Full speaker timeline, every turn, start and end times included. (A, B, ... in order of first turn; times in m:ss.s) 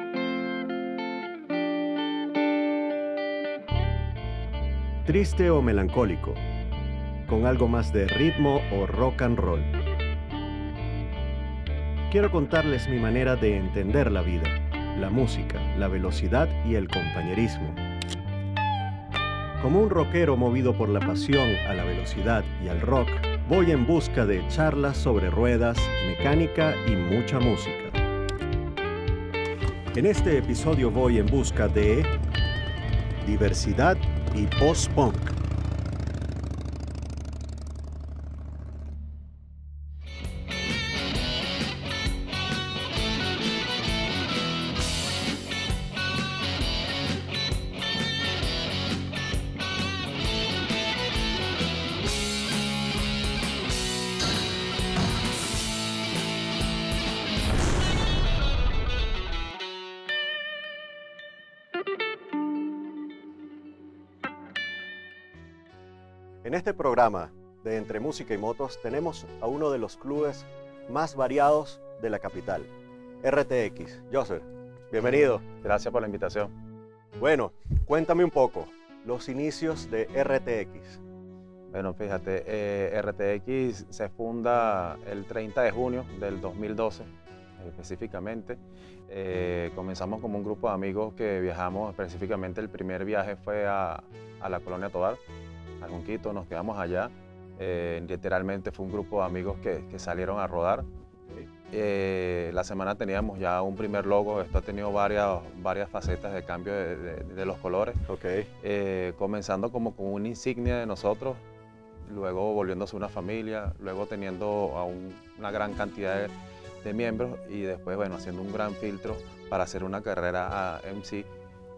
0:05.0-0:06.4 A
0:07.3-0:09.7 A
0:12.1-0:17.8 A
0:19.6-0:28.0 A
0:29.9-0:32.1 A
0:33.2-0:35.4 A
1:06.4-1:15.4 A
1:15.6-1:16.5 B
1:17.2-1:21.0 A
1:21.7-1:35.2 B
1:35.8-1:40.8 B
1:41.7-1:48.0 B
1:48.1-1:48.5 A
1:48.6-1:51.4 B
1:52.1-1:56.3 B
1:56.8-2:01.3 B